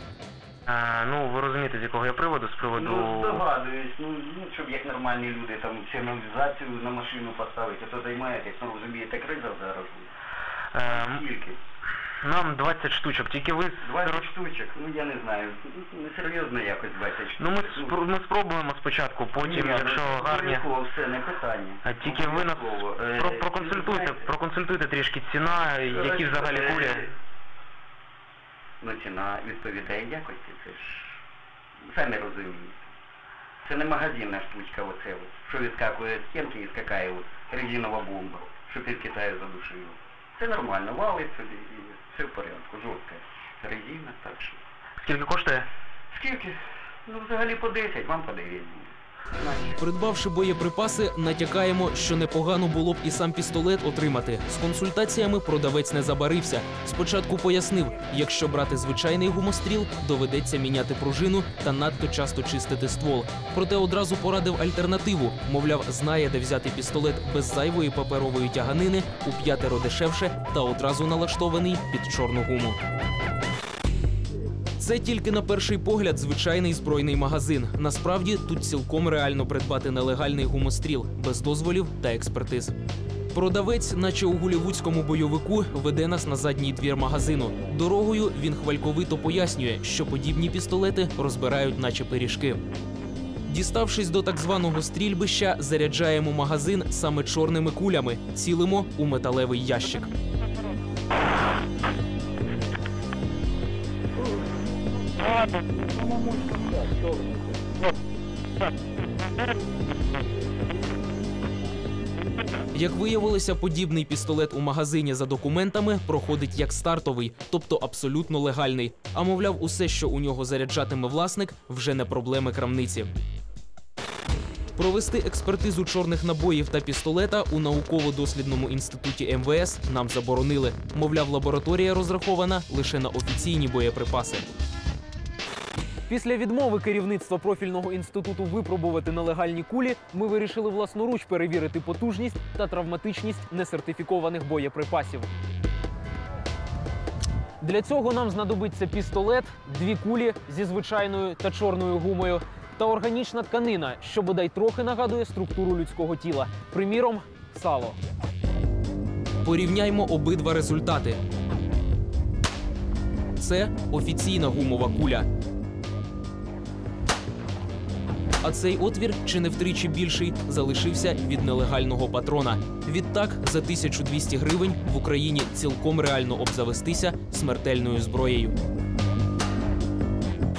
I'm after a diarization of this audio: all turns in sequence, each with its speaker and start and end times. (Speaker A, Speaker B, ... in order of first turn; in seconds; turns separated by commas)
Speaker A: 0.7-3.4, Speaker B: 2.7-10.1, Speaker A: 10.7-11.2, Speaker B: 10.8-11.6, Speaker A: 12.2-14.3, Speaker B: 13.8-18.0, Speaker A: 17.4-20.7, Speaker B: 19.4-24.3, Speaker A: 21.8-27.1, Speaker B: 25.8-27.1, Speaker B: 28.8-31.2, Speaker B: 31.9-32.8, Speaker B: 33.6-44.6, Speaker A: 45.0-45.7, Speaker B: 46.1-49.8, Speaker C: 49.8-72.8, Speaker C: 74.8-82.8, Speaker C: 83.3-92.6, Speaker C: 93.5-100.1, Speaker C: 112.7-123.1, Speaker C: 124.8-134.6, Speaker C: 136.1-145.2, Speaker C: 147.6-157.9, Speaker C: 159.4-161.2, Speaker C: 163.4-165.2, Speaker C: 168.4-178.6